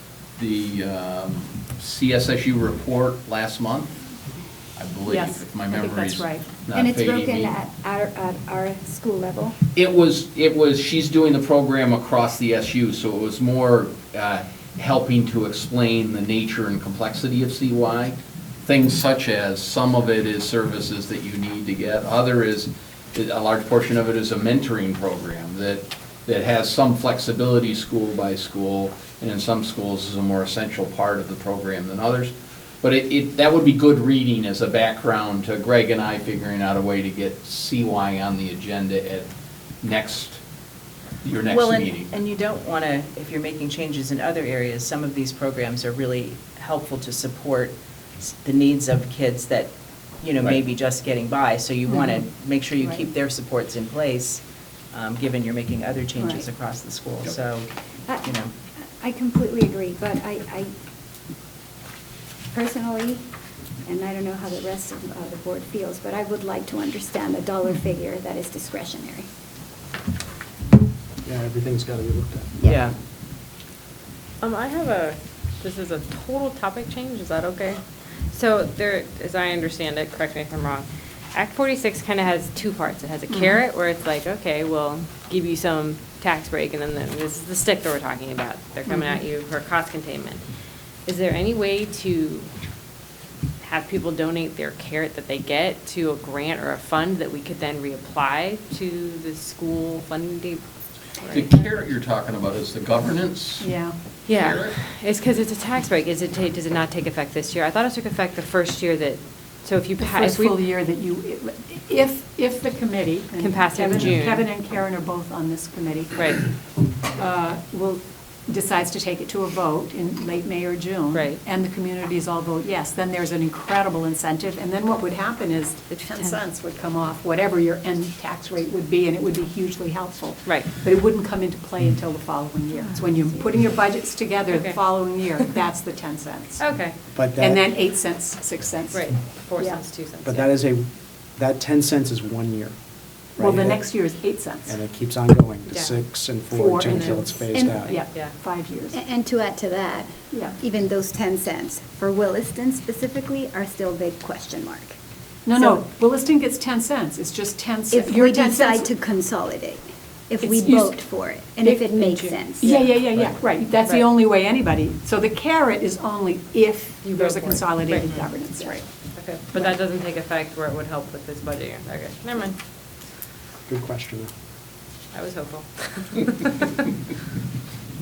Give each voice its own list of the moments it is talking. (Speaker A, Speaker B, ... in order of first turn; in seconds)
Speaker A: 0.4-4.0, 4.8-7.5, 9.8-39.3, 39.8-40.4, 41.2-42.1, 101.3-103.7, 104.3-104.8
Speaker B: 5.1-6.5, 56.2-56.5, 83.3-83.6, 88.9-89.2, 103.6-104.0, 110.0-116.5, 117.1-136.7, 137.4-139.4, 143.4-144.8, 146.4-149.0, 155.5-158.9, 160.4-161.0, 161.6-168.9
Speaker C: 6.7-9.6, 59.0-60.7, 62.5-63.2, 63.8-69.3, 72.6-72.9, 147.5-147.9, 148.9-154.9, 157.9-162.7
Speaker D: 41.5-54.4, 54.9-57.7, 58.2-58.5
Speaker E: 71.2-72.5, 137.1-137.7, 140.2-142.8, 143.3-144.0, 144.7-148.0, 173.7-174.3
Speaker F: 74.4-77.8, 78.3-90.4, 91.1-92.5, 93.6-100.6, 101.2-101.9, 104.3-110.7, 113.4-114.5, 116.1-116.4, 121.1-121.4, 125.9-126.4, 132.7-133.1, 134.5-134.8, 136.6-137.0, 138.9-140.5, 145.7-146.1, 146.9-147.2, 147.7-148.4, 162.1-162.9, 167.0-168.2, 169.2-172.6, 175.1-176.9